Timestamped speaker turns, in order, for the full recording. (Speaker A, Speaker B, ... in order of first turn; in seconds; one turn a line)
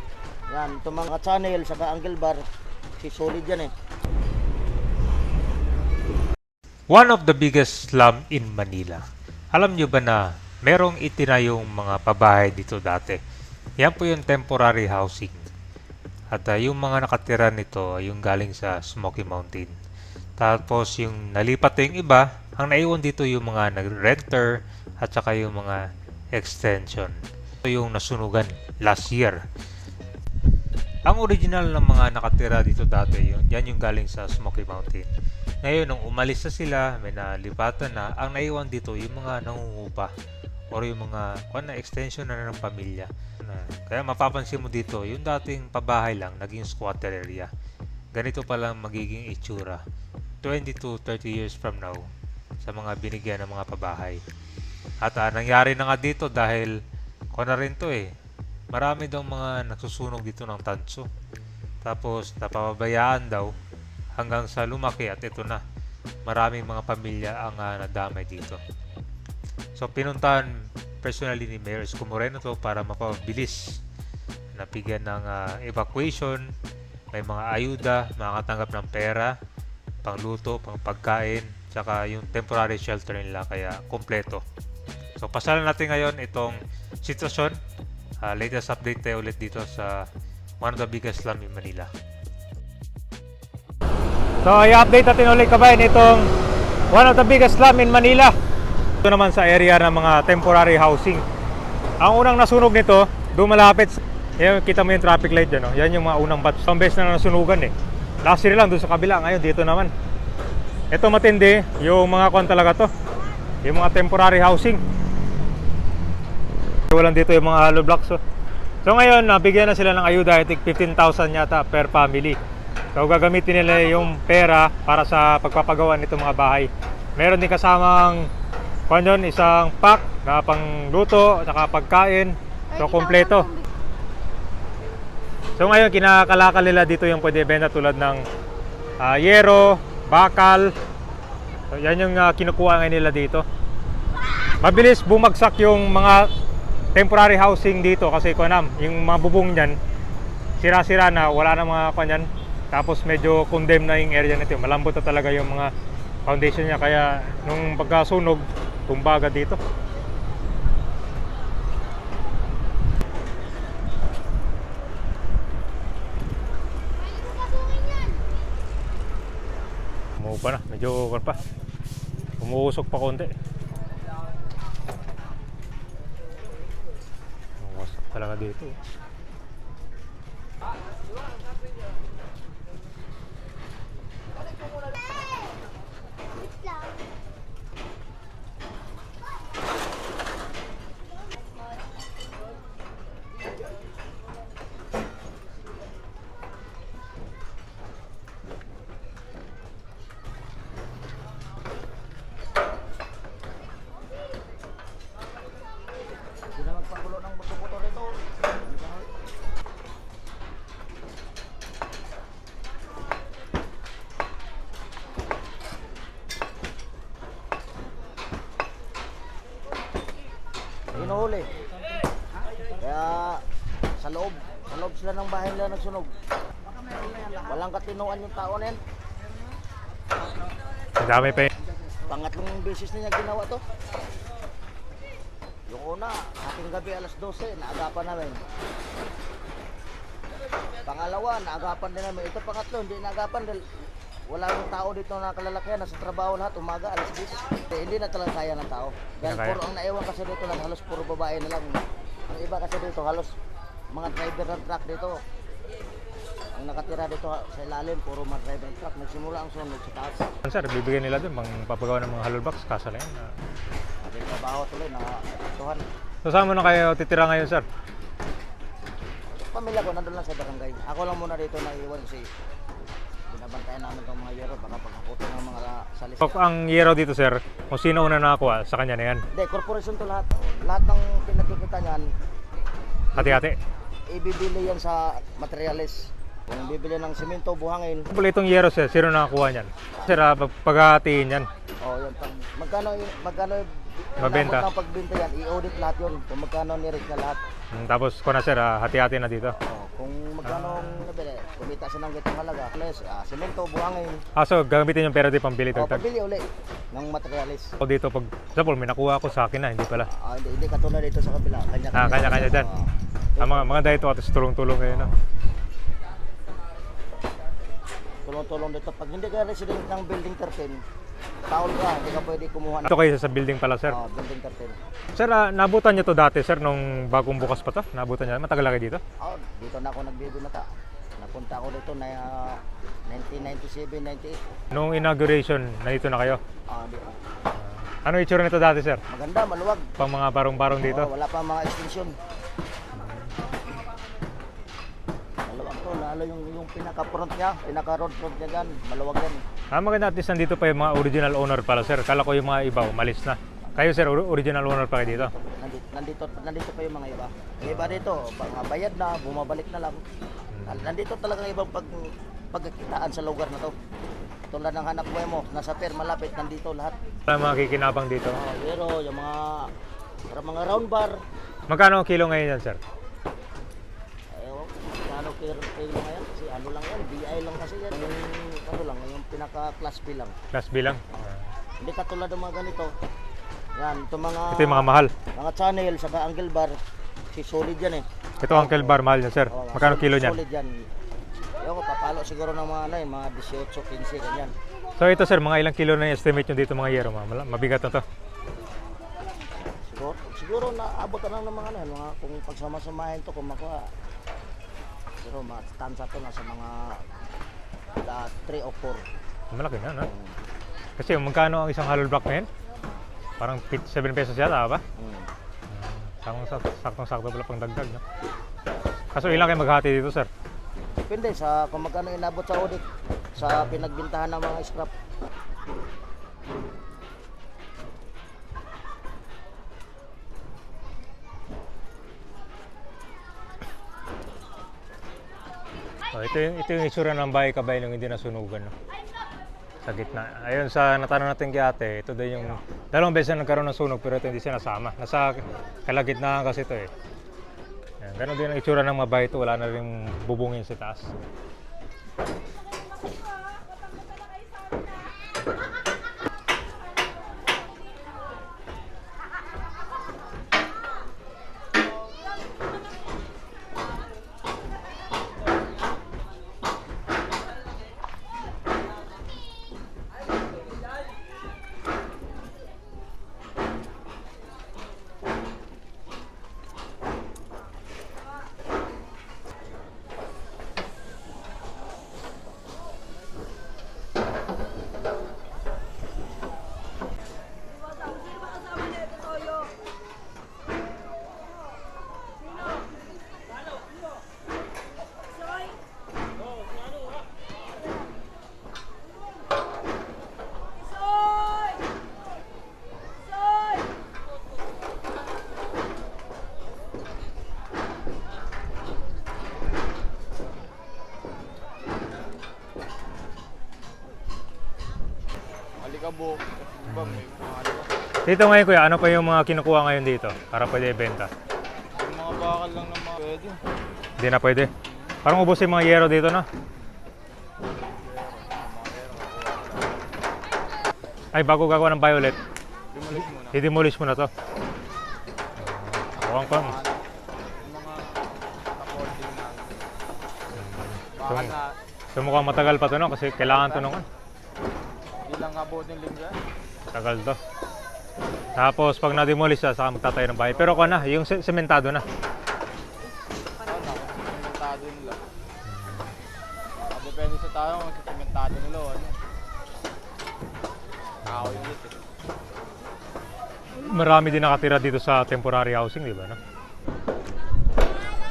Speaker A: 0.5-2.4
Speaker A: 3.0-3.7
Speaker B: 6.9-9.0
Speaker B: 9.5-13.2
Speaker B: 13.8-15.4
Speaker B: 16.3-19.7
Speaker B: 20.4-24.5
Speaker B: 25.0-25.8
Speaker B: 26.4-27.2
Speaker B: 27.7-29.4
Speaker B: 31.1-35.1
Speaker B: 35.6-40.1
Speaker B: 40.7-47.5
Speaker B: 48.1-49.8
Speaker B: 50.4-52.1
Speaker B: 52.6-54.2
Speaker B: 55.0-56.7
Speaker B: 57.4-58.1
Speaker B: 58.7-61.1
Speaker B: 61.8-63.5
Speaker B: 64.2-65.6
Speaker B: 66.3-68.6
Speaker B: 69.8-70.5
Speaker B: 71.0-73.8
Speaker B: 74.6-76.5
Speaker B: 77.1-79.3
Speaker B: 80.0-84.4
Speaker B: 85.2-87.5
Speaker B: 88.2-90.1
Speaker B: 90.6-91.9
Speaker C: 94.4-96.3
Speaker C: 96.9-98.3
Speaker C: 99.0-101.2
Speaker C: 102.0-107.7
Speaker C: 108.2-109.9
Speaker C: 110.9-112.9
Speaker C: 113.7-114.8
Speaker C: 116.9-118.2
Speaker C: 118.8-122.4
Speaker C: 123.0-128.3
Speaker C: 128.9-133.5
Speaker C: 135.6-138.2
Speaker C: 139.0-140.7
Speaker C: 141.7-143.4
Speaker C: 144.6-146.3
Speaker C: 146.9-149.8
Speaker C: 150.6-155.7
Speaker C: 156.3-159.6
Speaker C: 170.2-171.4
Speaker C: 172.4-173.3
Speaker C: 177.6-178.7
Speaker A: 206.6-208.1
Speaker A: 208.7-209.1
Speaker C: 220.9-221.2
Speaker A: 221.1-221.4
Speaker A: 222.9-223.3
Speaker A: 224.0-226.1
Speaker A: 227.5-228.8
Speaker C: 231.0-231.5
Speaker A: 232.1-233.6
Speaker A: 235.8-238.4
Speaker A: 240.9-243.5
Speaker A: 244.4-251.7
Speaker C: 249.2-249.6
Speaker A: 252.4-253.3
Speaker A: 254.0-255.1
Speaker A: 256.6-260.2
Speaker C: 260.4-263.3
Speaker A: 264.1-265.1
Speaker C: 266.2-267.6
Speaker A: 269.5-272.2
Speaker A: 273.5-276.2
Speaker C: 276.2-279.2
Speaker A: 279.4-282.0
Speaker C: 283.1-283.6
Speaker A: 284.2-284.9
Speaker A: 285.4-285.9
Speaker A: 286.7-288.0
Speaker C: 288.1-291.5
Speaker A: 291.9-293.6
Speaker C: 294.2-294.7
Speaker A: 294.3-297.4
Speaker C: 297.7-299.5
Speaker A: 299.7-300.4
Speaker C: 300.4-301.0
Speaker A: 301.1-304.1
Speaker C: 304.4-306.0
Speaker A: 305.9-306.4
Speaker A: 307.0-307.6
Speaker C: 307.8-310.1
Speaker A: 310.3-312.2
Speaker C: 311.9-312.7
Speaker C: 313.4-315.1
Speaker A: 318.3-320.7
Speaker A: 321.6-322.8
Speaker C: 322.9-324.0
Speaker A: 324.0-324.7
Speaker C: 325.1-329.0
Speaker A: 329.3-330.6
Speaker A: 331.6-332.2
Speaker A: 333.2-334.3
Speaker C: 334.7-336.4
Speaker C: 337.9-339.0
Speaker A: 339.1-339.8
Speaker C: 340.0-341.1
Speaker A: 341.0-342.1
Speaker A: 345.7-349.4
Speaker C: 349.7-355.3
Speaker A: 355.5-357.3
Speaker C: 357.6-358.0
Speaker A: 357.8-359.9
Speaker C: 360.5-360.9
Speaker A: 360.8-361.9
Speaker A: 362.5-363.7
Speaker A: 364.6-366.9
Speaker C: 367.3-368.4
Speaker A: 368.5-369.4
Speaker A: 370.4-371.1
Speaker C: 371.7-372.8
Speaker A: 374.5-380.3
Speaker C: 380.5-381.3
Speaker A: 381.9-382.9
Speaker A: 383.8-384.5
Speaker C: 384.5-385.1
Speaker A: 385.4-386.7
Speaker A: 387.4-388.0
Speaker C: 388.4-390.4
Speaker A: 389.7-390.7
Speaker A: 391.7-394.5
Speaker C: 395.0-398.0
Speaker A: 399.9-403.7
Speaker A: 405.4-406.6
Speaker A: 408.2-409.0
Speaker C: 409.5-410.1
Speaker C: 411.0-412.5
Speaker C: 413.4-414.8
Speaker C: 415.7-418.0
Speaker C: 419.1-420.3
Speaker A: 421.1-422.8
Speaker C: 423.4-423.9
Speaker A: 423.9-424.9
Speaker C: 436.1-438.7
Speaker C: 439.8-446.9
Speaker C: 448.0-451.1
Speaker D: 515.8-517.9
Speaker C: 516.9-517.2
Speaker C: 518.3-521.3
Speaker D: 522.0-523.6
Speaker C: 524.2-524.7
Speaker C: 525.2-526.5
Speaker D: 527.9-530.1
Speaker C: 531.3-532.4
Speaker D: 532.9-533.6
Speaker C: 533.1-534.3
Speaker C: 535.6-536.8
Speaker D: 536.1-537.0
Speaker D: 537.6-538.2
Speaker D: 538.8-539.9
Speaker C: 540.6-541.6
Speaker D: 541.2-541.8
Speaker C: 542.1-544.1
Speaker D: 543.4-543.9
Speaker D: 545.2-546.4
Speaker C: 546.9-547.4
Speaker C: 548.6-552.0
Speaker D: 550.5-551.0
Speaker D: 553.6-555.2
Speaker D: 556.9-559.2
Speaker D: 561.2-562.0
Speaker C: 561.2-561.7
Speaker C: 563.8-566.4